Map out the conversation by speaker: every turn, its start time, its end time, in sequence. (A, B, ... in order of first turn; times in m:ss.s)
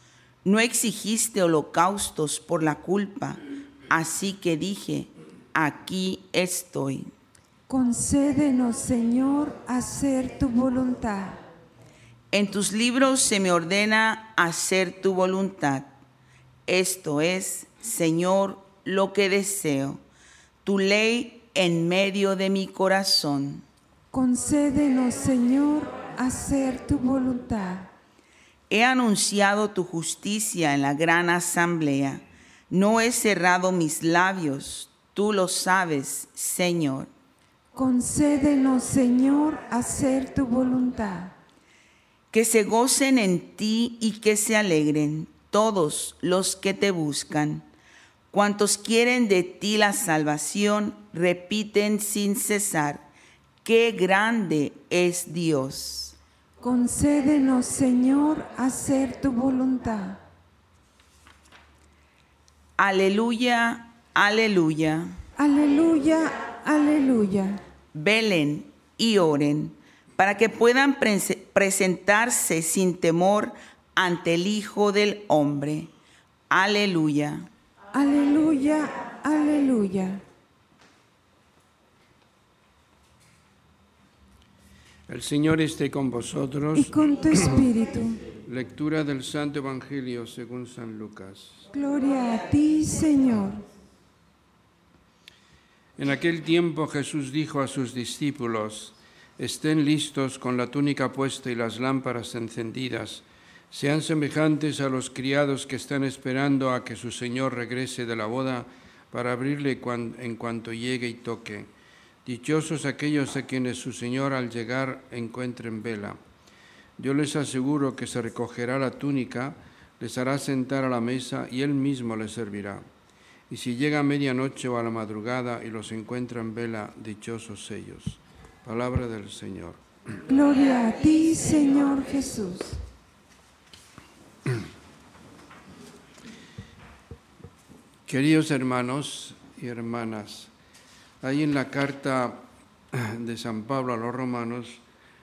0:00.4-0:07.1 A
0:07.7-0:11.4 B
0:12.3-0:15.9 A
0:16.7-0:20.0 A
0:20.6-0:23.6 A
0:24.1-0:27.9 B
0:28.7-0:37.1 A
0:37.7-0:41.3 B
0:42.3-0:47.7 A
0:48.3-0:53.1 A
0:53.6-0:56.2 A
0:56.6-1:00.2 B
1:02.8-1:05.2 A
1:05.4-1:07.6 B
1:07.9-1:15.9 A
1:16.5-1:17.5 A
1:17.9-1:20.2 B
1:25.1-1:27.7 C
1:26.8-1:28.2 B
1:28.4-1:31.6 C
1:31.7-1:33.6 B
1:36.0-1:51.7 C
1:52.2-1:56.2 C
1:57.0-2:02.8 C
2:03.5-2:09.8 C
2:10.3-2:12.8 B
2:18.1-2:20.5 C
2:21.2-2:24.8 C